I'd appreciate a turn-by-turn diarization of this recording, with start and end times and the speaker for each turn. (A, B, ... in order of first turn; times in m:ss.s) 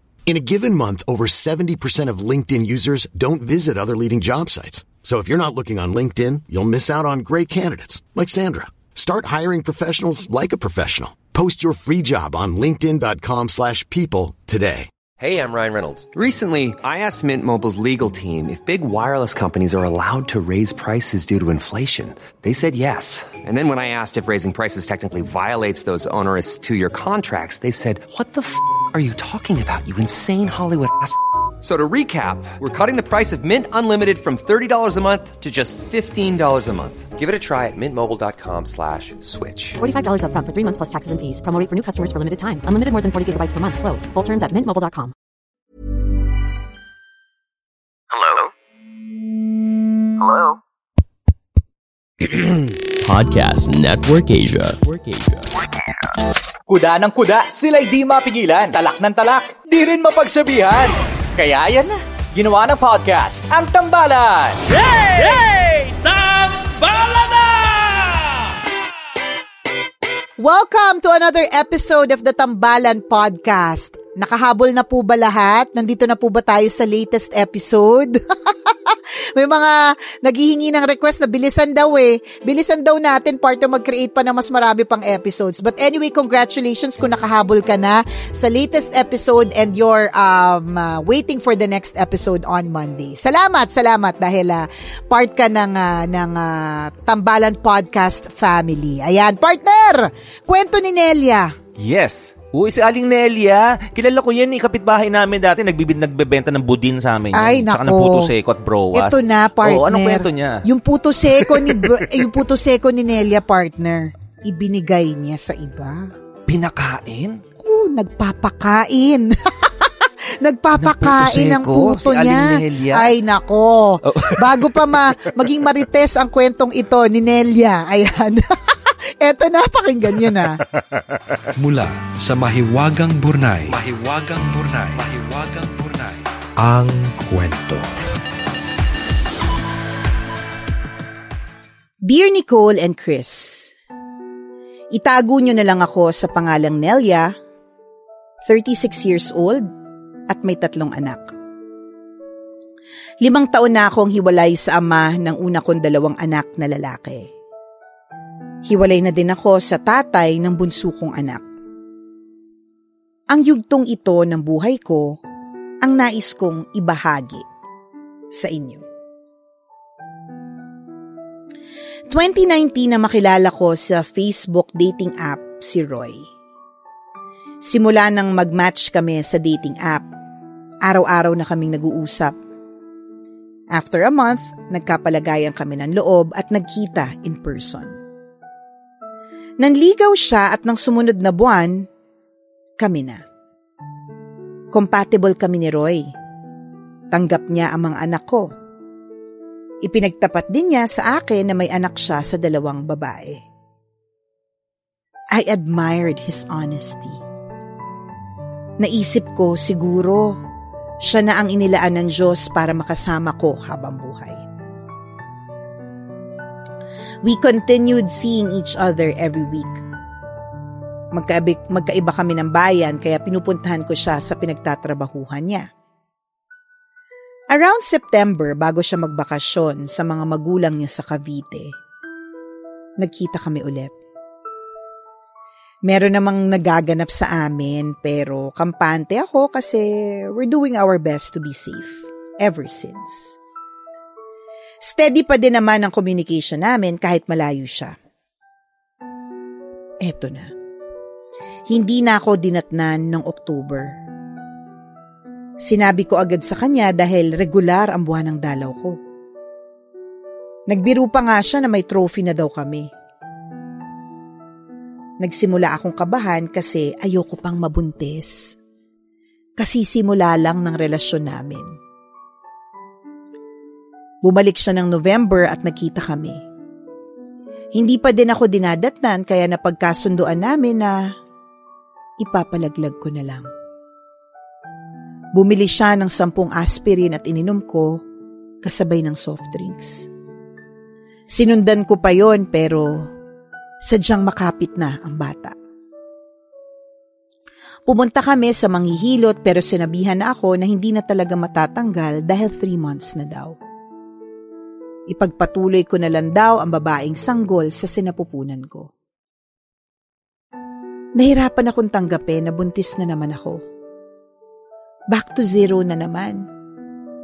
0:00.3-0:14.9 A
0:15.2-0:39.8 B
0:39.8-0:45.1 C
0:53.0-0:55.3 D
0:56.7-1:08.2 E
1:10.4-1:41.5 F
1:41.8-1:50.6 G
1:47.3-1:48.3 F
1:48.9-1:56.1 F
1:51.4-1:52.3 G
1:56.5-1:57.4 G
1:57.6-1:59.9 F
2:00.4-2:08.5 F
2:00.8-2:03.1 G
2:04.1-2:05.3 G
2:09.2-2:10.6 F
2:11.6-2:17.9 H
2:22.1-2:23.7 F
2:24.9-2:27.3 F
2:28.4-2:29.7 F
2:30.3-2:31.3 F
2:33.2-2:37.3 F
2:38.7-2:41.4 F
2:43.3-2:45.2 F
2:45.8-2:47.4 F
2:48.4-2:48.8 F
2:52.1-2:56.2 F
2:57.6-3:00.1 F
3:00.8-3:02.4 F
3:03.7-3:08.0 F
3:09.6-3:11.9 F
3:12.8-3:13.2 F
3:14.7-3:16.1 F
3:17.1-3:18.5 F
3:19.8-3:23.4 F
3:25.3-3:27.2 F
3:28.8-3:30.4 F
3:31.0-3:34.4 F
3:37.2-3:39.8 F
3:41.1-3:45.7 F
3:47.5-3:51.7 F
3:53.0-3:53.9 F
3:55.9-4:03.4 F
4:04.8-4:07.9 F
4:10.0-4:10.5 F
4:11.7-4:13.9 F
4:15.6-4:19.0 F
4:20.7-4:22.9 F
4:25.2-4:28.6 F
4:29.6-4:31.7 F
4:34.2-4:36.4 F
4:37.8-4:41.0 F
4:42.2-4:43.5 F
4:45.4-4:48.0 F
4:48.6-4:50.1 F
4:51.3-4:53.1 F
4:53.8-4:55.6 F
4:57.9-5:03.6 F
5:05.1-5:08.9 F
5:11.2-5:13.6 F
5:15.1-5:16.4 F